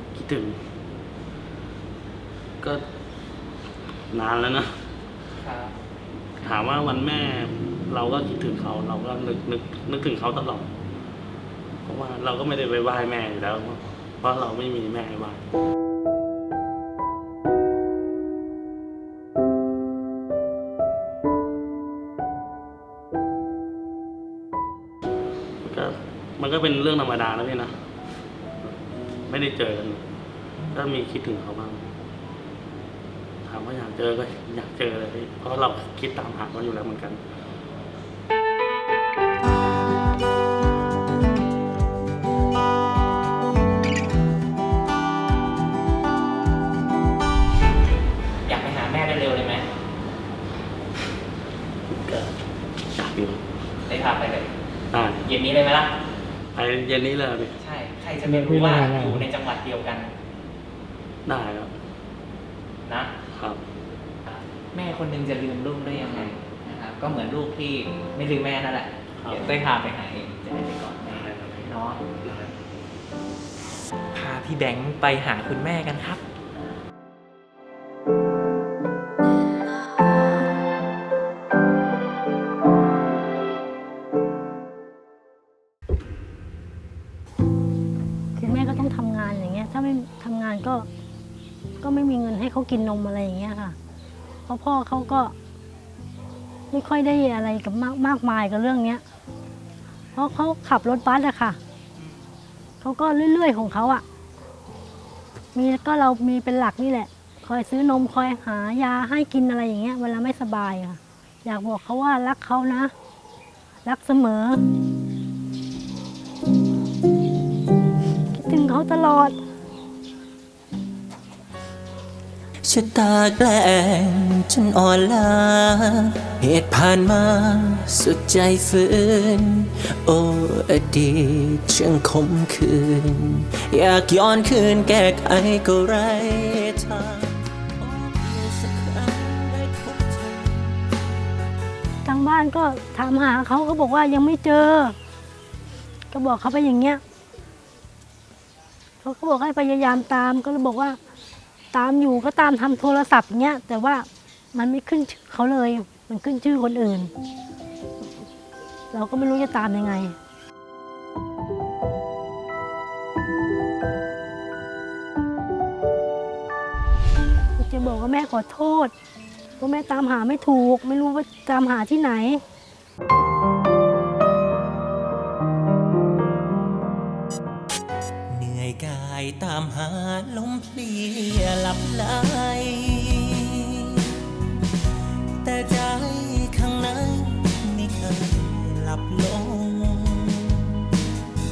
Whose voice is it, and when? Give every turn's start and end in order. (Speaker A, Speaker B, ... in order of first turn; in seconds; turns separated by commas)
Speaker A: 0.1-0.5, Speaker A: 4.1-4.7, Speaker B: 5.3-5.8, Speaker A: 6.4-10.7, Speaker A: 11.8-15.4, Speaker A: 25.6-27.7, Speaker A: 29.3-30.0, Speaker A: 30.7-31.8, Speaker A: 33.5-37.2, Speaker B: 48.5-49.6, Speaker A: 51.9-52.3, Speaker A: 53.0-53.4, Speaker B: 53.9-54.5, Speaker A: 54.9-55.3, Speaker B: 55.2-56.0, Speaker A: 56.5-57.5, Speaker B: 57.6-60.1, Speaker A: 58.4-59.2, Speaker A: 61.3-61.7, Speaker B: 62.9-63.1, Speaker A: 63.3-63.6, Speaker B: 64.7-72.1, Speaker A: 69.2-69.5, Speaker A: 71.2-71.5, Speaker B: 74.1-76.2, Speaker C: 88.3-90.9, Speaker C: 91.8-93.8, Speaker C: 94.5-95.3, Speaker C: 96.7-99.0, Speaker C: 100.1-101.6, Speaker C: 102.8-104.0, Speaker C: 105.5-112.9, Speaker C: 113.8-114.6, Speaker C: 118.3-119.4, Speaker D: 122.7-140.8, Speaker C: 142.0-144.9, Speaker C: 146.1-147.0, Speaker C: 149.0-151.0, Speaker C: 151.7-157.1, Speaker C: 158.9-160.2, Speaker C: 167.6-168.9, Speaker C: 169.6-172.4, Speaker D: 178.3-184.2, Speaker D: 185.4-190.9